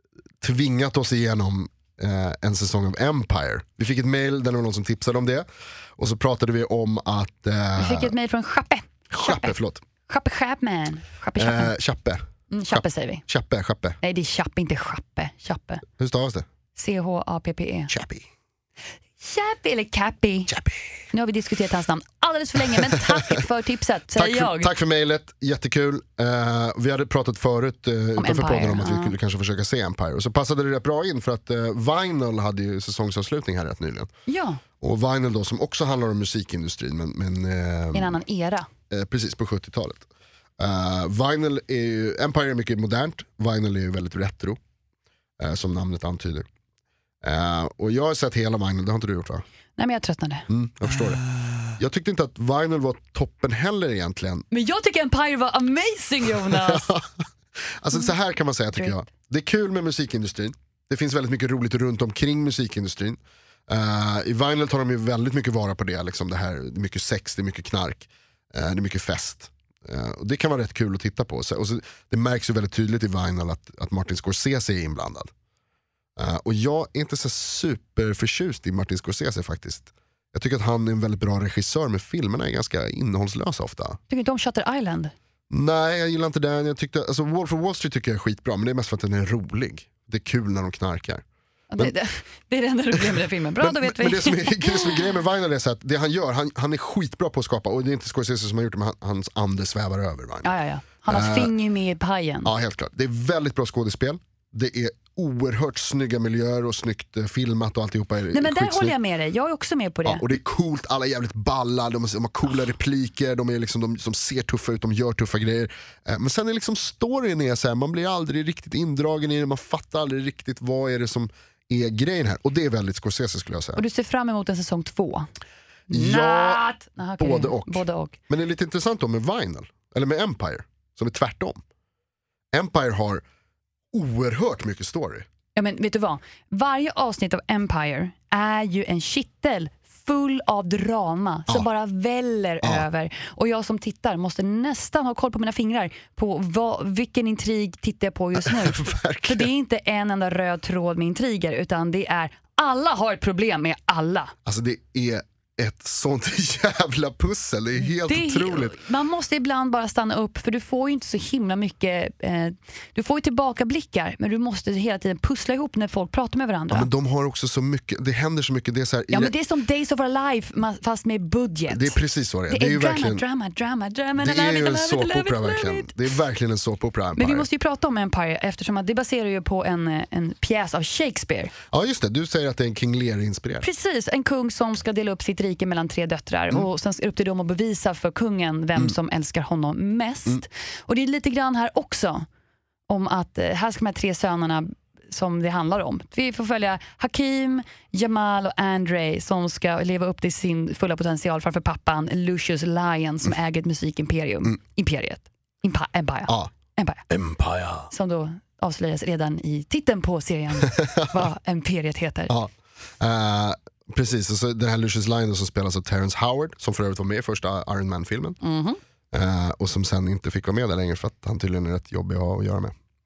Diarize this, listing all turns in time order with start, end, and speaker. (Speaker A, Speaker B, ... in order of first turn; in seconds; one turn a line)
Speaker A: 0.4-5.5
Speaker A: 6.0-8.1
Speaker B: 7.8-9.6
Speaker A: 9.1-9.8
Speaker B: 10.1-11.7
Speaker A: 11.4-14.0
Speaker B: 12.5-13.2
Speaker B: 14.0-15.8
Speaker A: 16.0-16.4
Speaker B: 16.7-17.9
Speaker A: 17.9-18.2
Speaker B: 19.2-20.5
Speaker A: 20.5-20.8
Speaker B: 21.1-24.7
Speaker A: 24.1-34.1
Speaker B: 28.1-29.1
Speaker B: 34.3-34.6
Speaker A: 34.8-38.2
Speaker B: 37.9-38.7
Speaker A: 38.9-40.1
Speaker A: 40.6-44.6
Speaker A: 45.4-46.5
Speaker A: 47.2-49.4
Speaker B: 49.8-50.5
Speaker A: 50.5-51.2
Speaker A: 51.8-54.5
Speaker B: 54.5-56.9
Speaker A: 56.5-57.2
Speaker A: 57.8-75.3
Speaker A: 76.2-84.0
Speaker B: 84.1-85.1
Speaker A: 85.5-91.2
Speaker B: 91.7-95.0
Speaker A: 93.0-100.5
Speaker B: 100.4-102.5
Speaker A: 101.1-101.5
Speaker A: 102.4-108.9
Speaker B: 108.3-110.2
Speaker A: 110.0-123.8
Speaker B: 123.8-125.3
Speaker B: 125.9-128.2
Speaker A: 125.9-126.6
Speaker A: 127.2-131.6
Speaker A: 132.5-133.2
Speaker A: 133.9-135.2
Speaker B: 135.5-154.3
Speaker A: 148.4-149.5
Speaker A: 154.4-158.8
Speaker B: 157.8-166.9
Speaker A: 166.7-169.3
Speaker B: 169.1-172.0
Speaker A: 171.7-173.2
Speaker B: 172.5-175.9
Speaker A: 174.2-177.4
Speaker B: 177.2-181.5
Speaker A: 181.7-183.7
Speaker B: 183.6-192.2
Speaker B: 192.9-207.0
Speaker A: 207.1-207.9
Speaker B: 207.9-212.3
Speaker A: 210.6-211.0
Speaker A: 212.3-218.4
Speaker B: 218.4-218.8
Speaker A: 219.1-222.7